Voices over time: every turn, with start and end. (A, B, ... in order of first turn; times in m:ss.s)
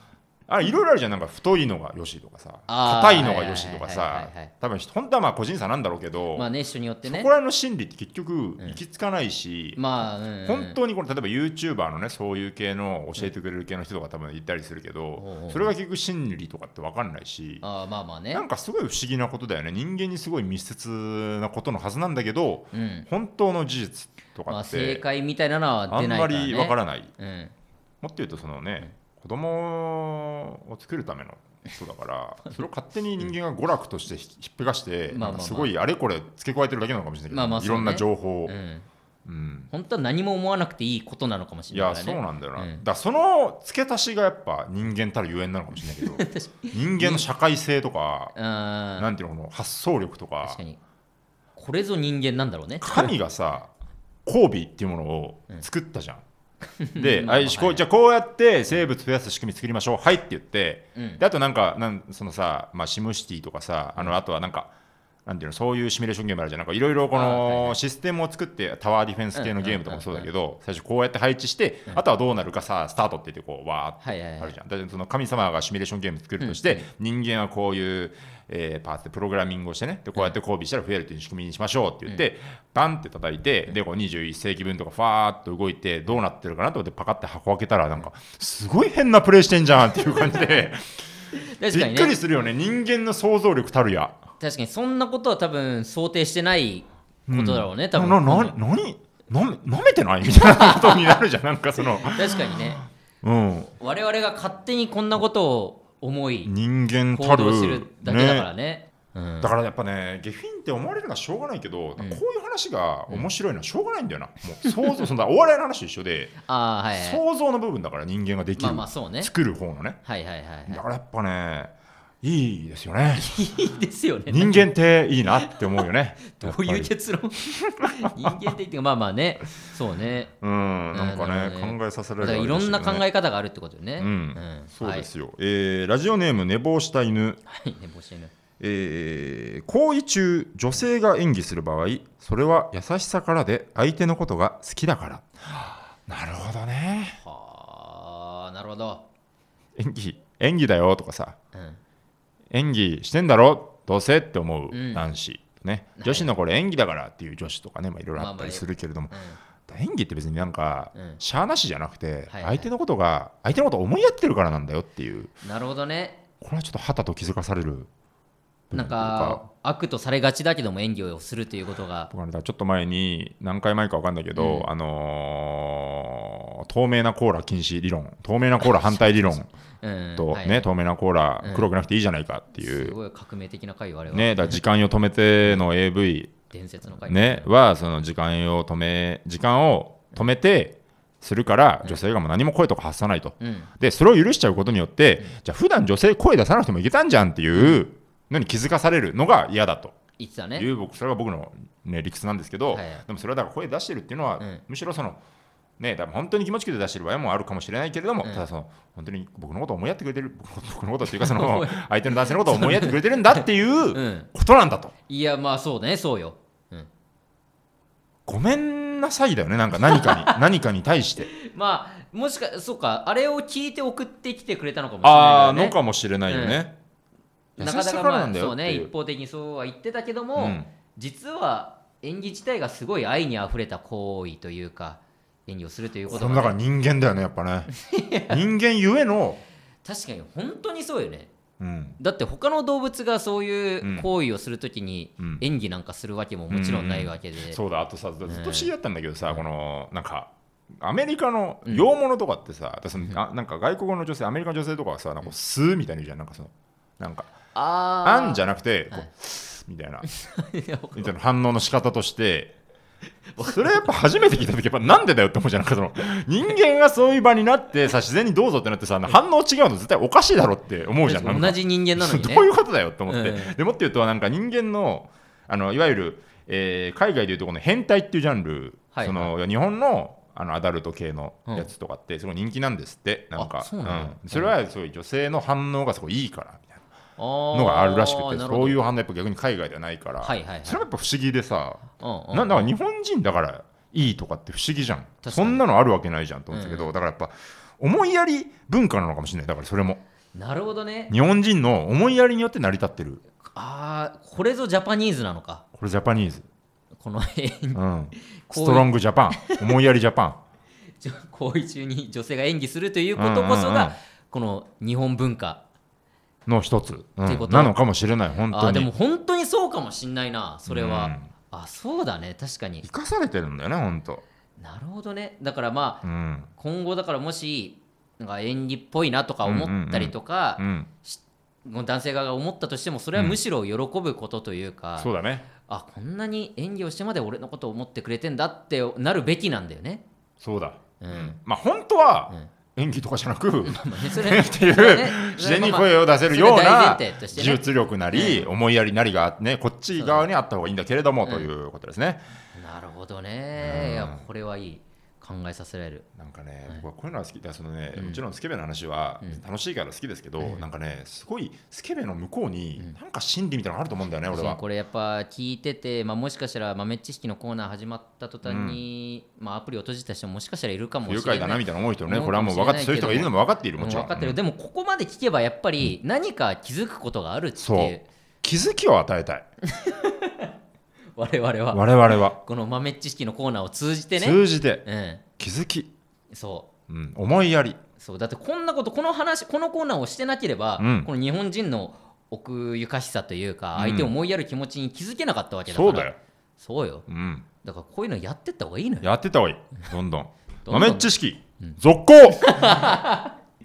0:00.5-0:06.5 A
0:02.7-0:04.5 B
0:06.4-0:07.3 B
0:07.0-0:09.8 A
0:09.8-0:10.8 B
0:10.4-0:17.6 A
0:15.2-0:15.7 B
0:17.6-0:18.4 B
0:18.3-0:25.0 A
0:22.7-0:23.1 B
0:24.5-0:27.5 B
0:25.9-0:27.1 A
0:28.0-0:38.6 A
0:35.1-0:35.7 B
0:37.3-0:38.9 B
0:39.2-0:39.7 A
0:39.7-0:42.8 B
0:41.7-0:48.4 A
0:45.8-0:47.2 B
0:48.4-0:49.1 B
0:49.0-0:50.6 A
0:50.4-0:50.8 B
0:51.6-0:53.2 B
0:52.8-0:53.7 A
0:54.3-0:56.2 A
0:56.8-0:57.8 B
0:57.0-1:04.7 A
1:01.0-1:01.2 B
1:05.3-1:31.0 A
1:07.1-1:07.8 B
1:09.4-1:10.3 B
1:14.0-1:14.6 B
1:16.4-1:16.9 B
1:31.4-1:32.2 B
1:31.7-1:34.2 A
1:34.4-1:38.6 B
1:37.3-1:43.7 A
1:40.3-1:41.2 B
1:41.8-1:42.8 B
1:43.8-1:46.5 B
1:46.4-1:48.5 A
1:47.1-1:49.5 B
1:49.4-1:56.4 A
1:54.6-1:55.1 B
1:56.5-1:57.2 B
1:56.9-2:00.0 A
1:58.6-1:59.3 B
2:00.0-2:00.8 B
2:00.7-2:03.3 A
2:03.2-2:04.7 B
2:04.3-2:06.9 A
2:05.2-2:10.3 B
2:07.8-2:08.4 A
2:10.4-2:13.0 A
2:10.9-2:15.1 B
2:14.0-2:17.4 A
2:17.5-2:18.3 B
2:18.6-2:27.2 A
2:27.2-2:29.0 B
2:29.8-2:31.4 A
2:31.5-2:31.8 B
2:32.5-2:45.3 A
2:34.7-2:35.0 B
2:36.0-2:36.3 B
2:38.2-2:39.4 B
2:41.0-2:41.2 B
2:42.3-2:42.7 B
2:45.4-2:46.2 B
2:46.4-2:47.9 A
2:48.7-2:49.4 A
2:48.7-2:52.1 B
2:52.1-2:59.5 A
2:54.4-2:54.7 B
2:58.6-3:00.7 B
3:00.2-3:03.0 A
3:01.4-3:01.7 B
3:02.6-3:04.6 B
3:04.1-3:06.3 A
3:06.5-3:07.5 B
3:06.9-3:20.0 A
3:13.4-3:13.7 B
3:17.5-3:17.8 B
3:20.2-3:20.7 B
3:20.6-3:25.2 A
3:22.7-3:23.0 B
3:25.8-3:34.9 A
3:31.1-3:34.3 B
3:35.1-3:36.9 B
3:38.3-3:41.3 A
3:39.8-3:40.4 B
3:41.3-3:45.8 B
3:45.0-3:46.8 A
3:46.3-3:46.6 B
3:47.6-3:56.6 B
3:47.6-3:48.9 A
3:50.4-3:50.7 A
3:56.1-3:57.7 A
3:57.7-3:58.4 B
3:58.3-3:59.4 A
3:59.8-4:01.3 B
4:01.6-4:02.0 A
4:02.0-4:07.6 B
4:03.8-4:04.1 A
4:06.5-4:17.4 A
4:08.3-4:08.7 B
4:17.5-4:19.1 B
4:18.0-4:20.1 A
4:20.1-4:21.1 B
4:21.0-4:22.6 A
4:23.3-4:23.9 B
4:23.4-4:46.8 A
4:31.0-4:32.5 B
4:33.1-4:33.6 B
4:38.9-4:39.3 B
4:43.4-4:44.5 B
4:47.2-4:48.8 B
4:47.5-5:00.0 A
4:50.2-4:50.9 B
4:52.0-4:52.7 B
4:55.2-4:55.6 B
4:56.5-4:56.9 B
5:00.3-5:01.1 B
5:01.1-5:03.2 A
5:03.5-5:05.6 B
5:05.7-5:06.5 A
5:07.0-5:07.8 B
5:07.8-5:10.4 A
5:08.4-5:09.6 B
5:11.0-5:15.6 B
5:13.2-5:14.0 A
5:16.5-5:18.9 A
5:17.2-5:17.8 B
5:18.5-5:22.8 B
5:20.7-5:21.3 A
5:22.8-5:24.2 A
5:24.6-5:26.0 B
5:26.0-5:26.5 A
5:26.6-5:40.0 B
5:29.4-5:30.9 A
5:35.0-5:35.5 A
5:40.4-5:52.2 A
5:41.0-5:41.4 B
5:43.6-5:48.5 B
5:49.9-5:50.3 B
5:52.5-5:56.1 B
5:53.6-5:54.2 A
5:56.2-6:04.6 A
5:58.0-5:58.2 B
6:00.4-6:00.7 B
6:04.3-6:18.1 B
6:08.4-6:08.8 A
6:11.0-6:14.4 A
6:17.6-6:19.5 A
6:19.6-6:20.5 B
6:21.2-6:25.2 B
6:21.7-6:22.4 A
6:24.2-6:24.8 A
6:25.4-6:25.9 A
6:26.3-6:26.7 B
6:26.9-6:27.8 A
6:28.0-6:37.1 B
6:30.8-6:31.1 A
6:33.8-6:34.1 A
6:35.7-6:36.2 A
6:37.1-6:37.5 A
6:37.6-6:39.1 B
6:39.0-6:42.7 A
6:40.7-6:41.1 B
6:42.3-6:43.4 B